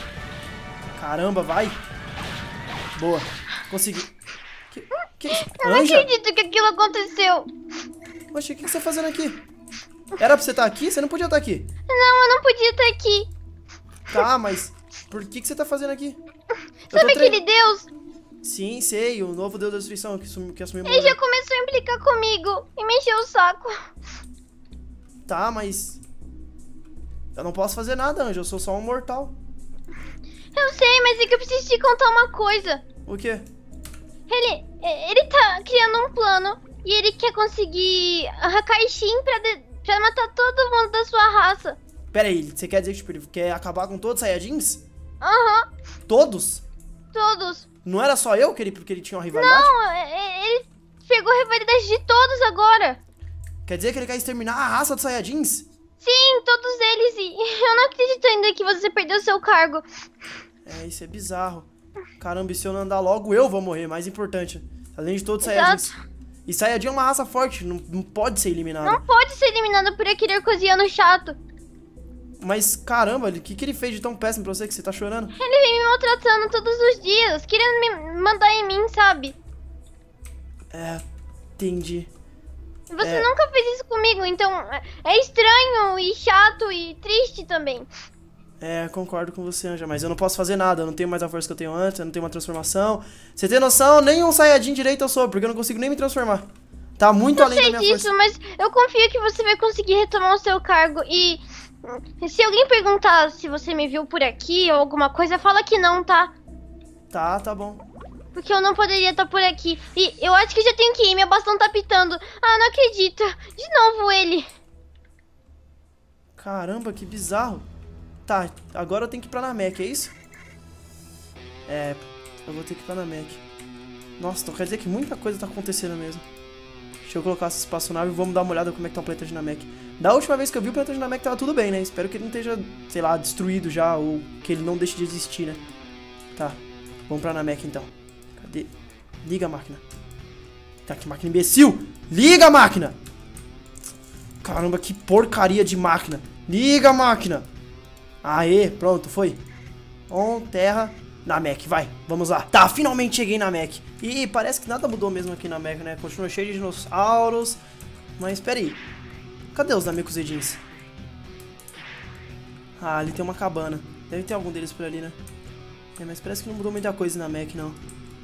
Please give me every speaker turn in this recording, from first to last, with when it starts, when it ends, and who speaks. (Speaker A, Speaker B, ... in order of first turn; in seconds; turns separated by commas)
Speaker A: 0.9-1.8, Speaker A: 3.0-4.1, Speaker A: 4.7-6.1, Speaker B: 5.3-7.5, Speaker A: 8.3-9.4, Speaker A: 10.2-11.7, Speaker B: 11.9-13.3, Speaker A: 14.1-16.2, Speaker B: 16.9-17.9, Speaker A: 16.9-17.4, Speaker A: 18.4-21.2, Speaker B: 20.8-23.8, Speaker A: 25.2-26.0, Speaker A: 27.3-29.3, Speaker B: 30.5-32.8, Speaker A: 33.0-33.5, Speaker B: 34.3-41.8, Speaker A: 42.1-44.8, Speaker B: 45.2-45.7, Speaker A: 46.1-46.6, Speaker B: 47.1-47.7, Speaker A: 47.8-49.7, Speaker B: 49.3-53.0, Speaker A: 53.6-55.6, Speaker B: 56.0-59.8, Speaker A: 60.6-61.7, Speaker A: 62.2-65.9, Speaker B: 65.4-66.0, Speaker A: 66.5-69.0, Speaker B: 68.8-71.4, Speaker A: 72.4-75.3, Speaker B: 75.4-79.3, Speaker A: 80.7-81.0, Speaker A: 81.6-82.1, Speaker B: 82.9-87.9, Speaker A: 83.0-83.3, Speaker A: 88.6-96.5, Speaker A: 97.0-98.1, Speaker B: 97.3-106.3, Speaker A: 107.1-107.8, Speaker B: 108.3-114.5, Speaker A: 116.3-117.7, Speaker A: 118.2-120.1, Speaker A: 121.7-123.4, Speaker A: 124.2-126.2, Speaker A: 127.0-135.6, Speaker A: 136.3-138.7, Speaker A: 139.2-139.8, Speaker A: 140.8-142.9, Speaker A: 144.4-147.4, Speaker A: 148.2-149.4, Speaker A: 150.1-157.6, Speaker A: 158.2-158.8, Speaker A: 159.5-160.6, Speaker A: 162.8-165.2, Speaker A: 166.0-167.8